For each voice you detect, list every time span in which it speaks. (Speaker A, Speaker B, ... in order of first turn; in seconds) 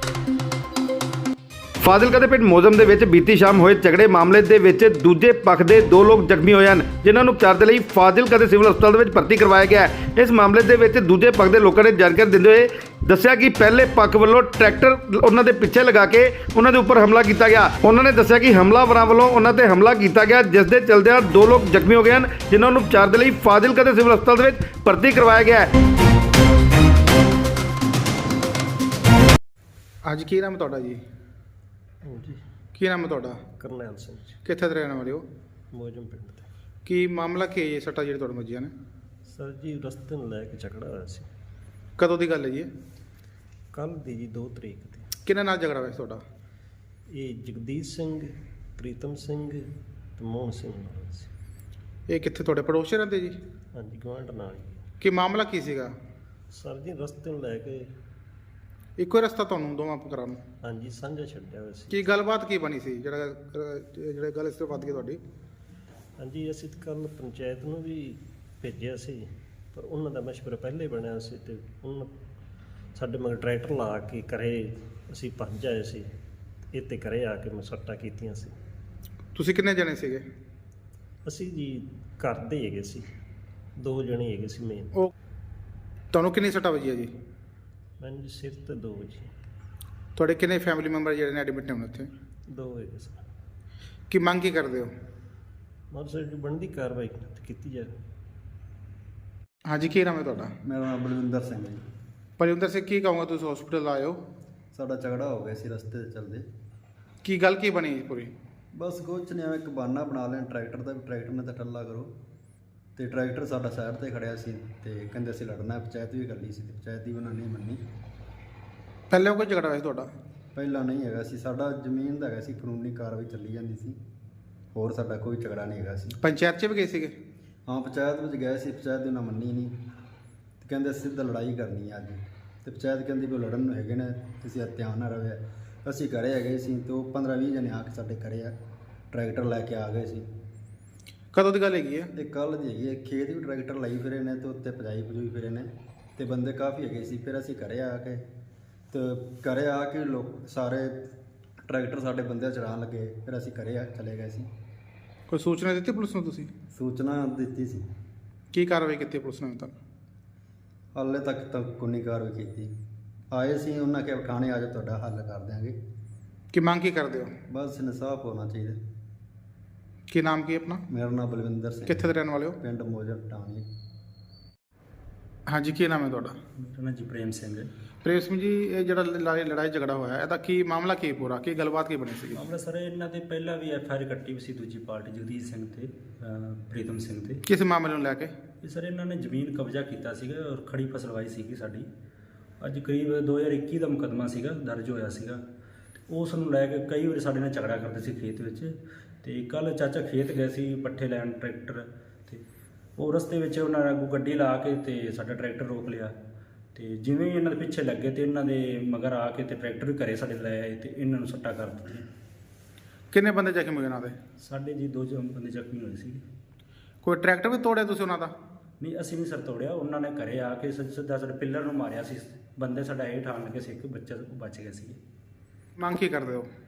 Speaker A: 1.8-25.7
Speaker B: 30.0-31.0, 32.8-33.4, 34.4-35.2, 36.9-38.7, 42.0-42.7, 45.2-46.2, 52.1-53.4, 55.0-55.9, 59.0-60.4, 61.9-65.2, 79.3-80.2, 86.1-87.1, 90.2-92.1, 94.1-94.9, 99.7-100.5, 102.4-104.2, 107.2-108.3, 119.1-120.1, 126.2-127.1, 141.3-142.1, 155.3-156.5, 158.5-159.7, 166.5-167.3, 170.1-170.8, 171.9-172.6, 175.5-176.4, 178.0-182.4, 187.4-188.3, 213.1-214.2, 217.0-218.3, 225.8-226.5
Speaker C: 32.0-32.4, 33.6-34.4, 35.7-36.5, 39.2-41.3, 43.7-45.1, 47.1-51.3, 53.7-54.8, 56.5-57.9, 60.6-62.0, 66.2-72.1, 72.9-76.1, 76.7-78.5, 81.2-83.1, 83.8-84.9, 88.0-89.3, 92.5-93.2, 95.9-97.9
Speaker D: 100.6-101.8, 104.7-106.5, 108.7-112.1, 113.0-117.8, 120.5-124.0, 124.7-126.2, 127.7-129.8, 130.6-138.5, 139.1-140.3, 142.1-148.2, 148.9-151.0, 151.7-154.5, 156.7-157.8, 160.9-162.7, 163.3-165.8, 167.5-168.8, 170.9-173.7
Speaker E: 176.6-177.7, 182.5-187.4, 188.6-191.9, 192.6-195.3, 196.1-198.7, 199.2-202.4, 203.0-206.1, 206.7-212.0, 214.4-216.2, 218.8-224.9